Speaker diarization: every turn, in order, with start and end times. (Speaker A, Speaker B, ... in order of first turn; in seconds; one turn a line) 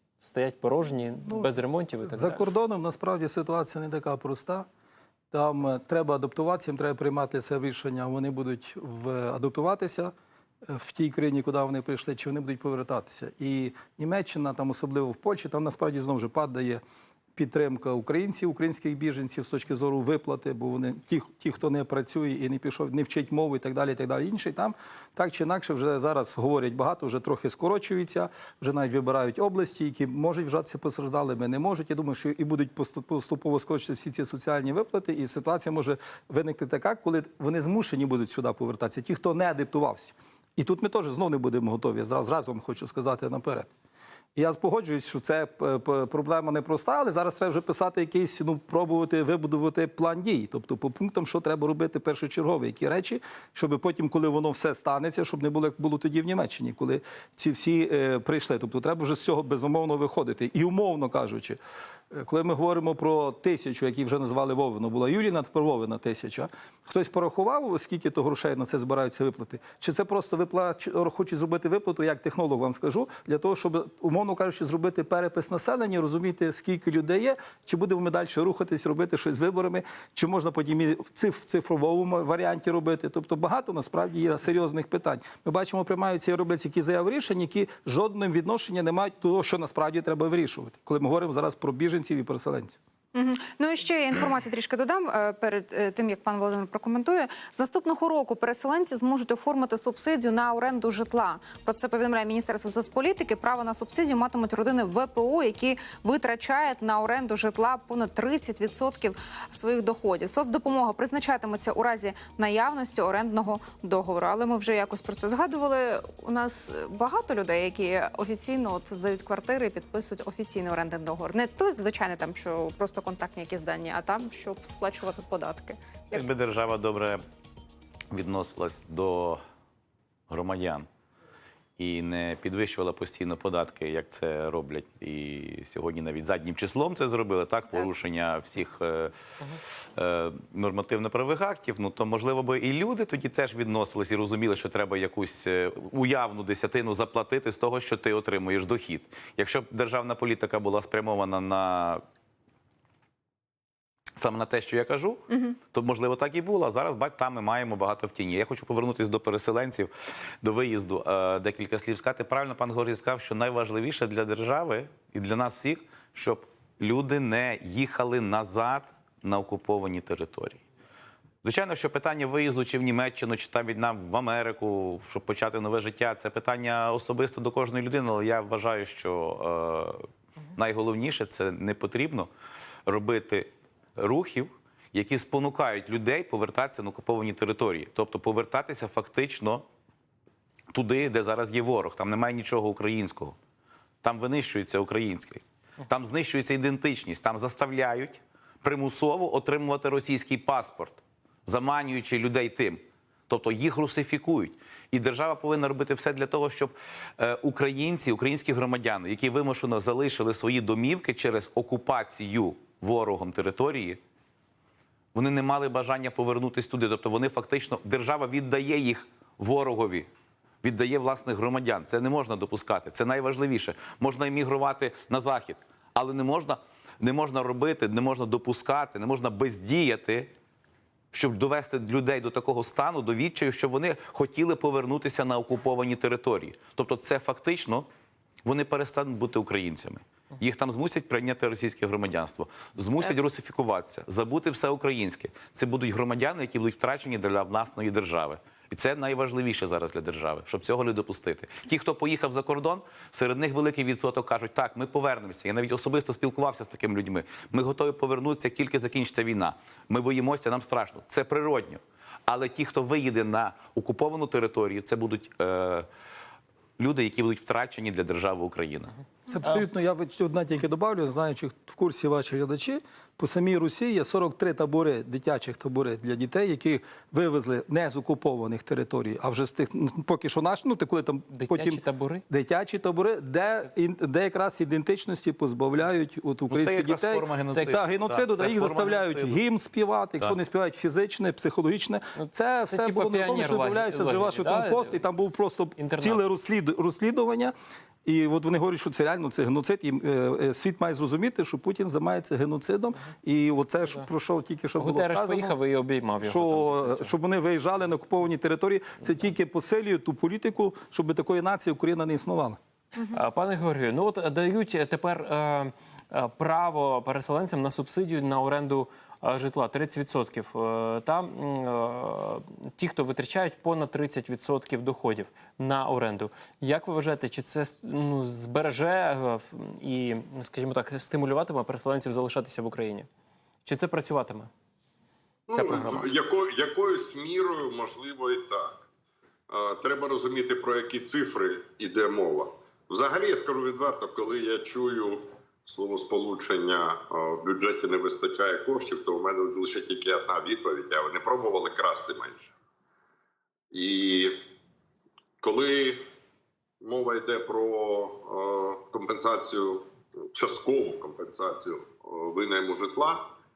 Speaker A: 0.2-2.4
Speaker B: 1.2-4.7
Speaker B: 5.3-10.1
Speaker B: 10.7-16.8
Speaker B: 17.3-43.7
Speaker B: 44.4-61.6
Speaker B: 62.1-92.8
Speaker C: 93.1-126.2
Speaker D: 126.1-127.2
Speaker D: 128.1-129.4
Speaker D: 130.3-130.9
Speaker D: 131.8-139.1
Speaker D: 139.9-152.0
Speaker D: 154.2-159.9
Speaker C: 155.3-155.5
Speaker D: 160.4-170.6
Speaker D: 171.4-182.3
Speaker D: 182.8-189.6
Speaker D: 190.7-193.3
Speaker D: 194.0-214.0
Speaker D: 215.1-220.1
Speaker D: 220.6-230.3
Speaker D: 231.1-237.8
Speaker D: 238.4-265.9
Speaker D: 266.8-268.9
Speaker B: 269.3-297.5
Speaker A: 281.3-282.2
Speaker D: 286.5-289.4
Speaker A: 292.1-296.2
Speaker B: 298.0-305.6
Speaker A: 304.8-307.1
Speaker B: 306.2-312.6
Speaker A: 313.0-333.1
Speaker A: 333.6-334.5
Speaker E: 335.5-338.8
Speaker A: 335.5-336.1
Speaker E: 339.5-352.5
Speaker E: 353.7-354.3
Speaker E: 355.4-356.0
Speaker E: 356.8-363.2